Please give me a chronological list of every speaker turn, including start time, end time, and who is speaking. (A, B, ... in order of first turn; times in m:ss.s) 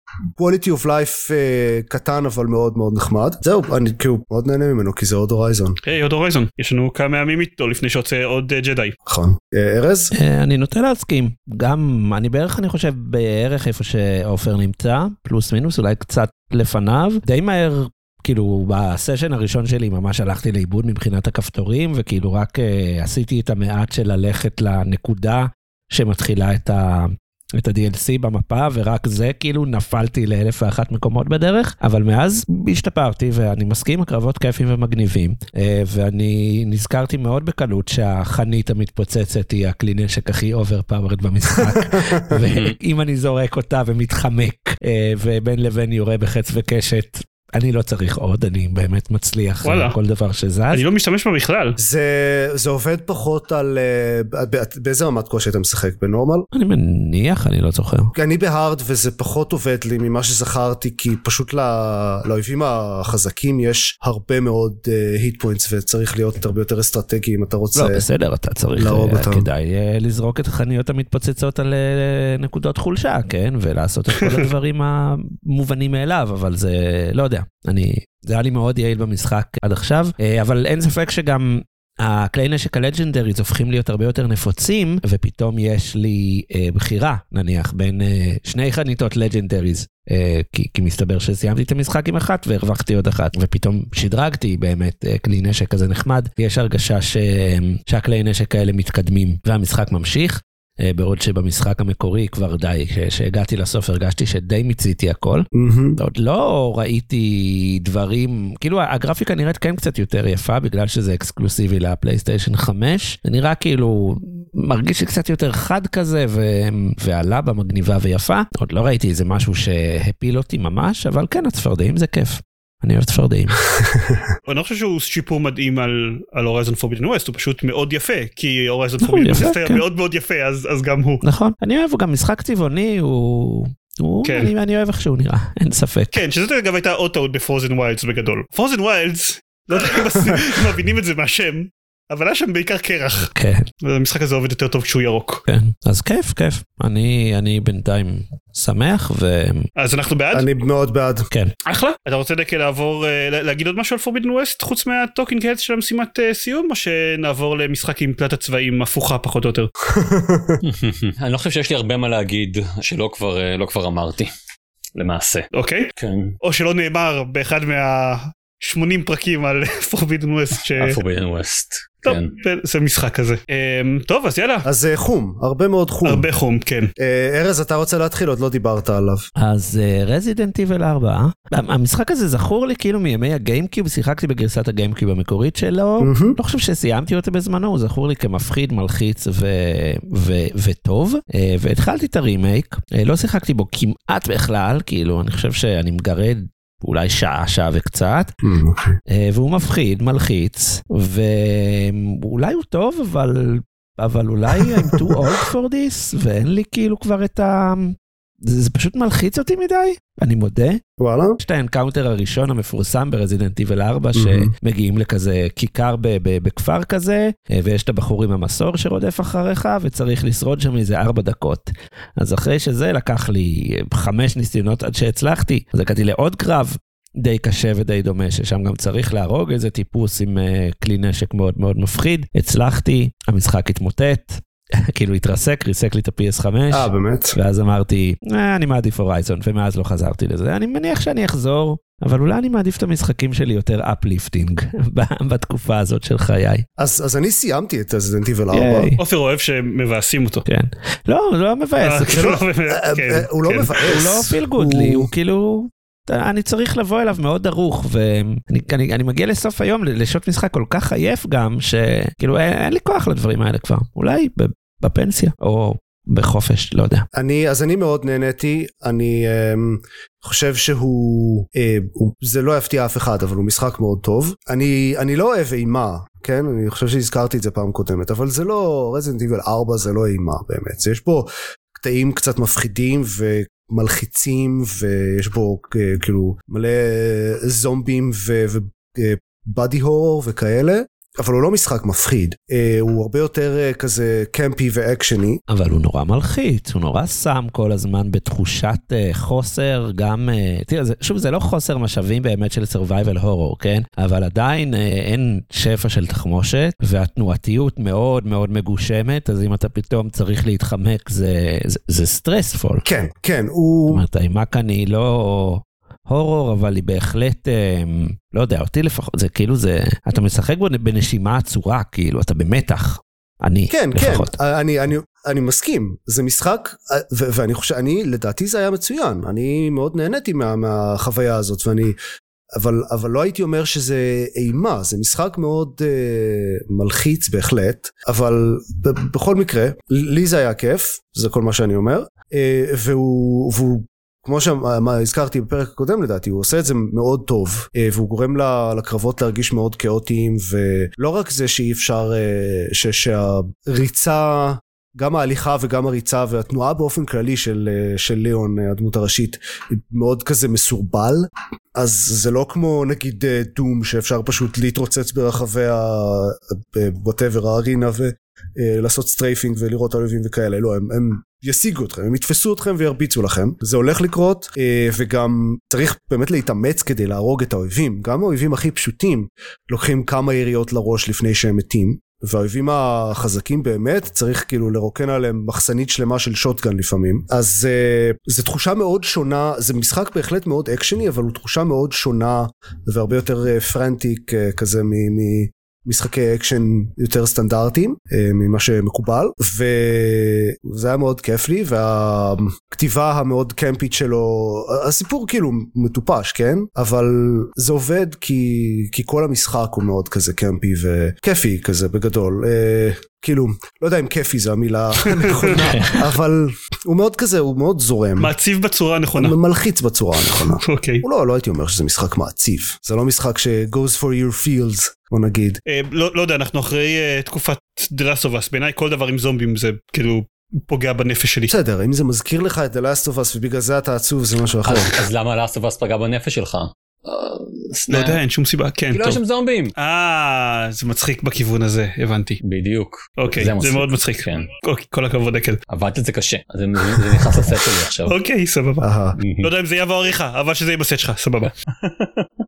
0:00.4-0:05.8 A
0:05.8-0:09.0 B
0:09.1-0:10.1 A
0:10.2-0:50.8 C
0:41.7-0:42.3 A
0:49.6-0:50.0 B
0:50.7-0:51.8 B
0:51.8-0:56.5 A
0:56.5-0:58.1 C
0:58.1-1:08.0 A
1:07.8-2:03.6 C
1:08.8-1:09.5 A
1:14.2-1:14.5 B
1:45.5-1:46.0 A
2:03.8-2:04.2 A
2:04.5-2:11.2 B
2:09.0-2:09.8 C
2:11.2-2:16.2 C
2:14.2-2:14.5 B
2:16.1-2:23.3 B
2:19.8-2:20.6 A
2:23.4-2:23.7 C
2:23.8-2:25.4 B
2:25.5-2:29.7 C
2:29.8-2:30.5 B
2:30.3-2:31.3 A
2:31.7-2:39.7 B
2:39.9-2:40.6 A
2:40.6-2:44.3 D
2:45.0-2:46.4 D
2:45.5-2:45.9 B
2:46.4-2:51.0 B
2:50.8-2:52.3 D
2:52.0-2:54.7 B
2:54.6-2:56.3 A
2:56.1-2:56.9 B
2:57.0-2:59.3 A
2:59.4-3:18.3 C
3:06.0-3:06.4 A
3:18.4-3:19.0 A
3:19.1-3:28.0 C
3:24.6-3:25.2 A
3:28.5-3:30.8 C
3:31.0-3:31.4 A
3:31.4-3:54.4 C
3:34.2-3:34.5 A
3:54.9-4:06.6 C
3:56.7-3:57.4 A
4:06.8-4:08.9 A
4:08.5-4:09.0 C
4:09.0-4:10.4 B
4:10.5-4:12.3 C
4:11.8-4:13.9 B
4:12.1-4:15.1 A
4:13.9-4:27.0 C
4:27.1-4:55.4 A
4:55.5-5:12.8 C
5:12.8-5:14.0 A
5:13.9-5:24.4 C
5:23.7-5:32.0 A
5:32.6-6:58.3 A
6:55.4-6:55.7 B
6:58.2-6:59.4 B
6:59.2-7:05.6 A
7:00.2-7:01.0 B
7:05.7-7:11.5 B
7:11.5-7:15.0 A
7:14.6-7:18.2 D
7:17.9-7:19.2 B
7:18.9-7:19.7 D
7:19.8-7:22.4 B
7:22.4-7:24.5 D
7:23.2-7:25.6 B
7:25.7-7:28.2 D
7:26.9-7:27.5 B
7:28.1-7:28.9 B
7:28.8-7:29.2 A
7:29.2-7:29.5 D
7:29.4-7:31.5 B
7:31.8-7:32.3 D